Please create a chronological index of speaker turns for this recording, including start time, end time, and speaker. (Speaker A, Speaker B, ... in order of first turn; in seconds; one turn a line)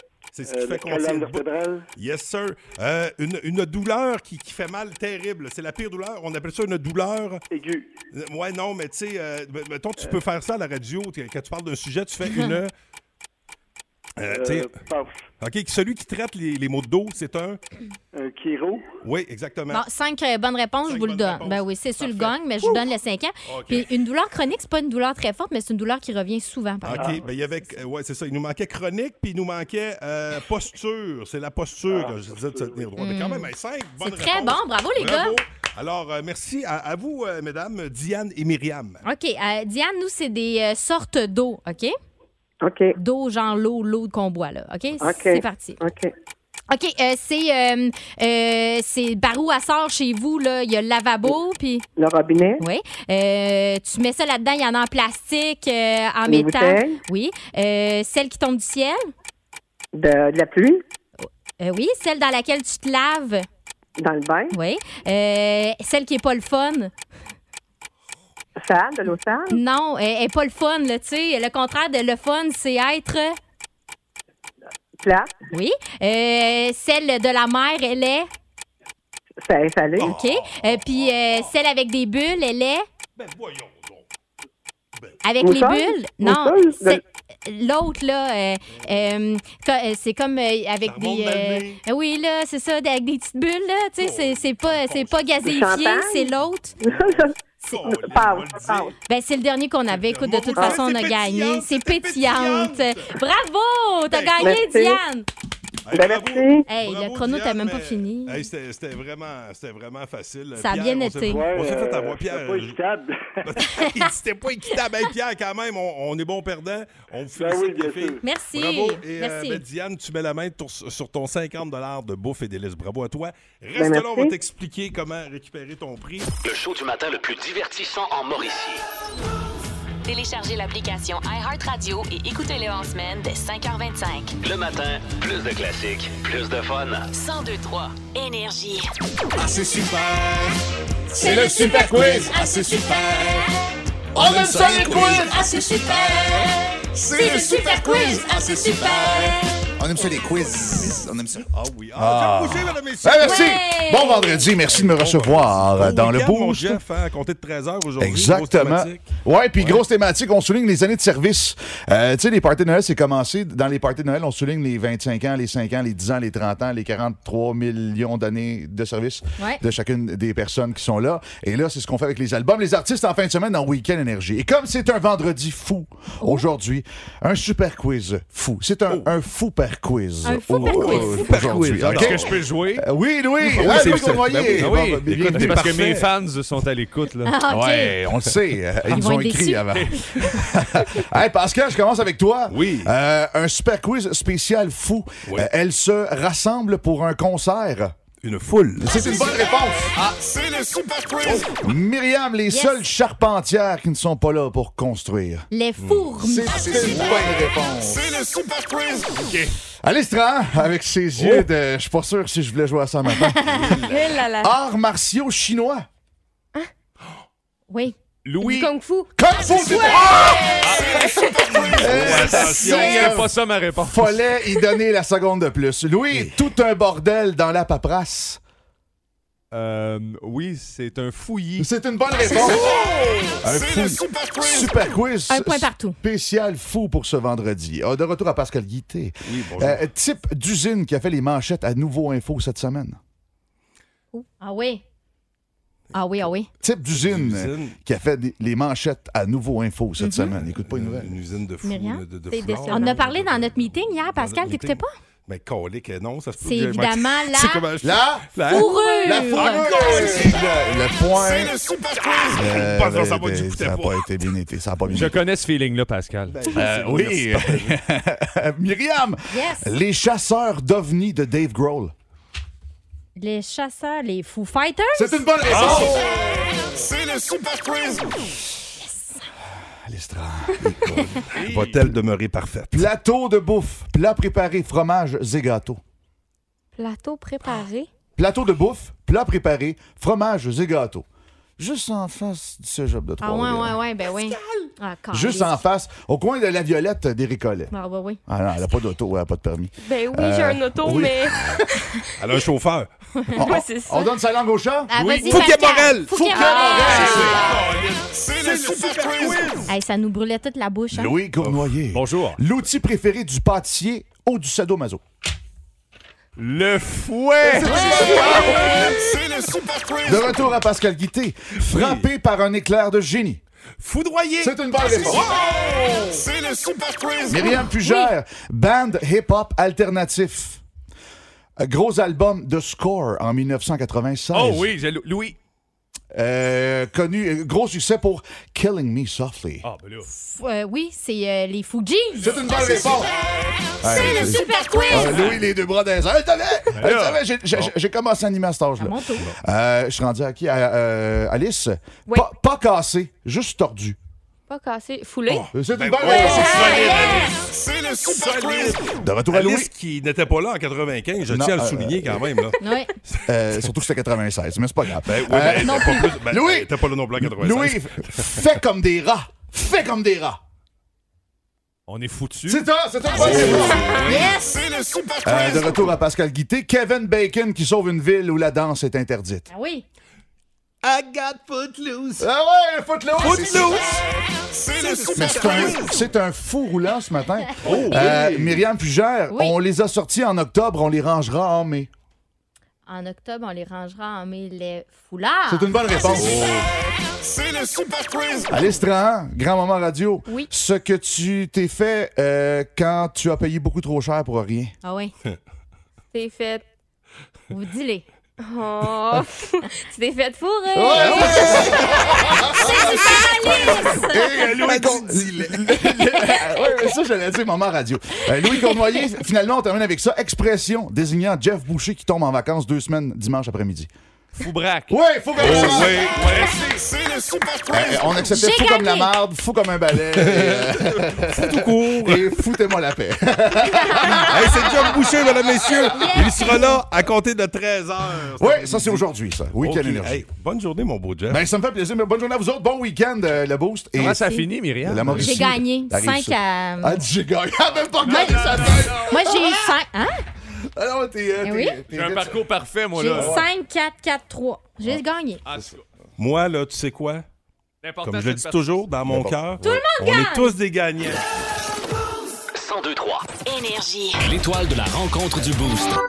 Speaker A: 0.3-7.4
Speaker B: 0.4-1.9
Speaker B: 7.5-7.9
Speaker A: 8.1-12.7
Speaker A: 14.2-14.7
Speaker B: 14.3-15.2
Speaker A: 15.4-17.6
Speaker B: 18.1-18.9
Speaker A: 19.0-19.9
Speaker C: 19.7-27.2
Speaker A: 20.9-22.9
Speaker A: 23.4-23.9
Speaker A: 26.8-39.0
Speaker B: 26.9-27.2
Speaker B: 31.9-32.9
Speaker C: 33.0-33.5
Speaker C: 34.0-35.4
Speaker C: 39.0-41.9
Speaker D: 42.6-42.9
Speaker C: 43.0-45.8
Speaker D: 45.0-46.1
Speaker C: 46.7-51.8
Speaker D: 52.0-52.6
Speaker C: 52.6-59.0
Speaker D: 56.3-57.0
Speaker D: 59.9-60.8
Speaker C: 61.2-63.5
Speaker D: 64.0-64.6
Speaker C: 64.5-66.9
Speaker D: 68.6-69.6
Speaker C: 69.5-73.4
Speaker D: 75.0-75.3
Speaker C: 75.5-78.3
Speaker D: 79.5-80.1
Speaker A: 80.0-81.5
Speaker C: 80.0-82.9
Speaker A: 83.2-84.1
Speaker C: 85.2-96.8
Speaker D: 85.4-87.0
Speaker A: 88.7-89.2
Speaker A: 90.8-91.8
Speaker A: 94.0-95.6
Speaker D: 95.4-96.3
Speaker A: 96.8-98.9
Speaker D: 96.8-97.3
Speaker D: 97.8-98.9
Speaker C: 99.1-105.3
Speaker A: 99.9-103.2
Speaker A: 104.1-104.6
Speaker D: 104.4-105.0
Speaker A: 105.9-112.8
Speaker D: 105.9-106.7
Speaker C: 106.7-108.5
Speaker C: 110.6-111.5
Speaker B: 111.2-113.5
Speaker A: 113.4-126.3
Speaker C: 113.6-113.9
Speaker B: 117.4-118.2
Speaker C: 118.2-119.6
Speaker D: 123.8-124.3
Speaker E: 126.4-128.8
Speaker F: 130.1-134.4
Speaker E: 134.4-137.1
Speaker F: 137.1-138.9
Speaker G: 139.4-140.5
Speaker H: 141.1-142.8
Speaker G: 141.3-143.5
Speaker H: 144.1-146.4
Speaker G: 144.2-146.3
Speaker H: 147.0-156.8
Speaker C: 147.2-148.5
Speaker G: 147.8-149.4
Speaker A: 151.5-153.6
Speaker C: 153.2-154.5
Speaker A: 154.7-159.8
Speaker H: 158.0-185.8
Speaker C: 180.2-181.3
Speaker A: 180.6-182.4
Speaker I: 181.8-182.8
Speaker A: 183.5-186.1
Speaker I: 183.6-187.4
Speaker C: 187.2-188.0
Speaker H: 187.5-197.9
Speaker C: 188.9-190.4
Speaker I: 189.7-190.0
Speaker A: 192.5-192.9
Speaker A: 198.2-199.1
Speaker H: 198.8-199.9
Speaker H: 201.3-205.5
Speaker C: 202.5-202.8
Speaker C: 205.5-206.9
Speaker A: 205.8-206.1
Speaker H: 206.2-208.4
Speaker A: 207.0-207.3
Speaker I: 209.2-209.5
Speaker H: 209.8-213.8
Speaker A: 211.2-211.5
Speaker C: 213.2-213.4
Speaker A: 213.5-214.2
Speaker J: 213.9-214.5
Speaker H: 214.3-215.8
Speaker C: 217.7-218.0
Speaker I: 218.2-218.6
Speaker J: 218.4-219.1
Speaker H: 218.5-228.4
Speaker I: 220.6-220.9
Speaker A: 221.7-223.2
Speaker I: 221.9-224.2
Speaker I: 229.5-231.7
Speaker H: 231.6-232.9
Speaker H: 233.4-243.0
Speaker C: 235.3-236.0
Speaker A: 239.3-239.9
Speaker C: 244.1-244.8
Speaker C: 245.9-246.5
Speaker A: 246.0-246.3
Speaker H: 246.6-251.1
Speaker A: 246.9-247.8
Speaker C: 250.0-250.3
Speaker A: 250.6-260.3
Speaker C: 251.6-254.9
Speaker C: 256.4-257.7
Speaker H: 257.8-261.6
Speaker C: 258.5-260.2
Speaker A: 261.9-264.0
Speaker H: 262.4-265.2
Speaker I: 264.9-266.4
Speaker A: 266.3-267.7
Speaker H: 266.5-271.9
Speaker C: 269.3-269.7
Speaker C: 273.2-275.2
Speaker H: 274.9-276.6
Speaker A: 275.5-276.0
Speaker C: 278.8-279.2
Speaker H: 279.9-281.2
Speaker A: 280.6-282.9
Speaker I: 281.3-281.8
Speaker H: 281.7-282.0
Speaker H: 282.7-285.8
Speaker J: 286.8-287.9
Speaker H: 288.2-291.0
Speaker H: 291.6-293.9
Speaker C: 293.2-295.6
Speaker H: 295.1-297.7
Speaker C: 297.7-298.2
Speaker H: 298.3-301.6
Speaker J: 299.8-301.3
Speaker A: 302.2-302.9
Speaker H: 303.4-307.5
Speaker J: 303.4-304.1
Speaker C: 304.9-307.6
Speaker A: 304.9-309.8
Speaker J: 306.2-307.6
Speaker C: 309.7-311.2
Speaker H: 310.9-315.0
Speaker A: 311.4-311.7
Speaker I: 311.9-312.4
Speaker I: 316.4-317.9
Speaker H: 317.4-319.0
Speaker A: 318.5-319.0
Speaker H: 320.0-323.4
Speaker A: 321.7-322.1
Speaker A: 323.8-326.3
Speaker H: 324.4-325.3
Speaker H: 327.3-330.6
Speaker H: 331.6-334.7
Speaker I: 334.3-335.4
Speaker H: 336.1-339.7
Speaker I: 339.6-340.1
Speaker C: 340.1-342.5
Speaker H: 342.2-343.1
Speaker H: 343.8-354.0
Speaker C: 343.9-345.3
Speaker I: 345.1-345.4
Speaker I: 346.8-347.2
Speaker C: 348.8-349.2
Speaker J: 354.5-355.5
Speaker A: 355.3-363.6
Speaker H: 355.5-357.0
Speaker C: 356.0-357.3
Speaker H: 359.0-359.7
Speaker H: 361.2-362.4
Speaker C: 362.6-362.9
Speaker H: 363.3-370.4
Speaker A: 365.0-368.4
Speaker C: 365.6-366.1
Speaker I: 371.9-372.7
Speaker H: 372.4-374.2
Speaker A: 373.1-374.4
Speaker C: 373.3-374.5
Speaker H: 375.2-379.5
Speaker C: 379.5-379.9
Speaker A: 380.8-382.3
Speaker H: 382.2-383.9
Speaker A: 383.2-384.0
Speaker A: 384.7-386.1
Speaker H: 385.1-391.9
Speaker A: 387.6-388.6
Speaker C: 392.9-396.2
Speaker H: 395.5-396.6
Speaker A: 396.2-396.6
Speaker H: 398.5-404.7
Speaker C: 404.8-405.1
Speaker J: 406.1-406.6
Speaker C: 407.5-408.1
Speaker J: 408.4-414.1
Speaker H: 410.7-423.9
Speaker C: 411.0-411.9
Speaker C: 412.8-414.1
Speaker A: 414.4-415.8
Speaker I: 424.4-426.9
Speaker H: 424.9-426.4
Speaker A: 425.4-426.3
Speaker H: 427.7-436.5
Speaker C: 428.3-429.1
Speaker A: 430.2-432.3
Speaker C: 433.8-434.3
Speaker A: 434.3-441.4
Speaker C: 435.9-436.8
Speaker H: 438.4-440.3
Speaker H: 441.3-449.8
Speaker I: 444.0-445.4
Speaker C: 444.0-444.5
Speaker A: 444.9-445.3
Speaker C: 445.2-447.0
Speaker I: 448.0-449.0
Speaker C: 448.1-448.4
Speaker C: 449.1-450.2
Speaker H: 450.8-452.6
Speaker C: 451.4-451.8
Speaker I: 451.9-453.4
Speaker C: 453.0-455.4
Speaker I: 455.4-455.9
Speaker A: 456.2-457.2
Speaker I: 457.8-458.9
Speaker A: 458.0-461.3
Speaker H: 459.0-459.9
Speaker C: 459.6-460.5
Speaker E: 462.5-463.3
Speaker F: 463.4-464.2